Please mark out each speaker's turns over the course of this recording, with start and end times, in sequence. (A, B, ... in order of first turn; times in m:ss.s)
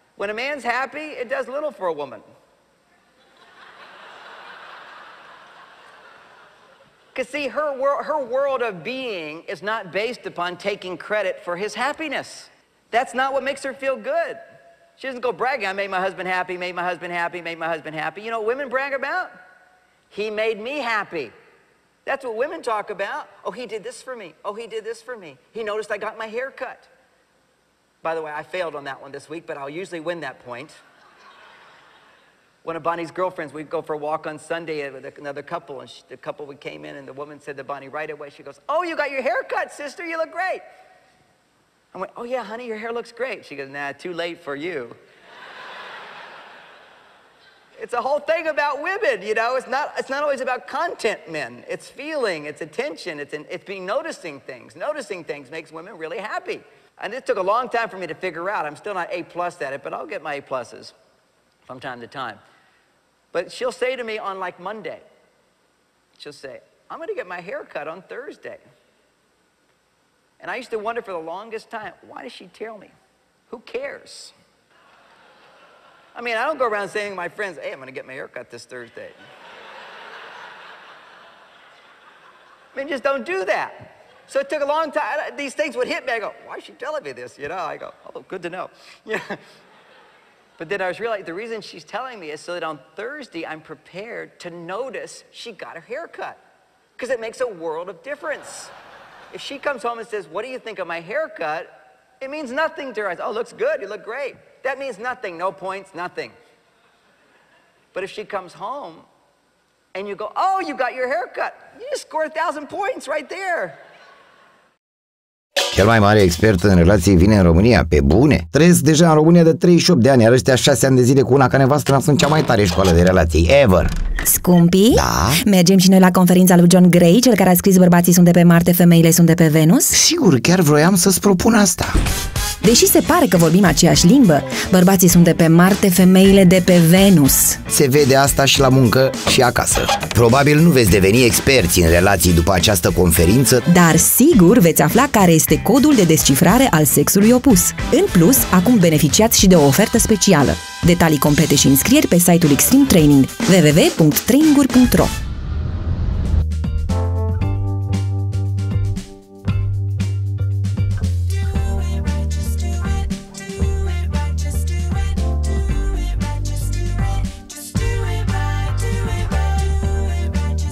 0:00.2-0:02.2 A
0:07.1-0:14.4 A
0:15.0-0:19.3 A
0:20.1-0:21.3 A
0:22.0-0:26.9 A
0:28.0-0:30.8 A
0:32.6-0:40.6 A
0:41.9-0:45.0 A
0:47.8-1:00.9 A
1:01.7-1:02.4 A
1:03.3-1:05.0 A
1:06.2-1:08.6 A
1:10.4-1:12.9 A
1:13.5-1:14.3 A
1:16.1-1:19.2 A
1:22.7-1:29.4 A
1:30.6-1:36.4 A
1:37.0-1:38.7 A
1:39.3-1:46.3 A
1:47.9-1:49.1 A
1:49.9-1:53.8 A
1:55.7-2:03.9 B
2:04.2-2:10.0 C
2:04.9-2:05.4 B
2:09.9-2:12.0 B
2:12.6-2:17.6 C
2:17.7-2:23.6 B
2:23.7-2:35.1 C
2:43.2-2:45.4 C
2:46.0-2:50.4 C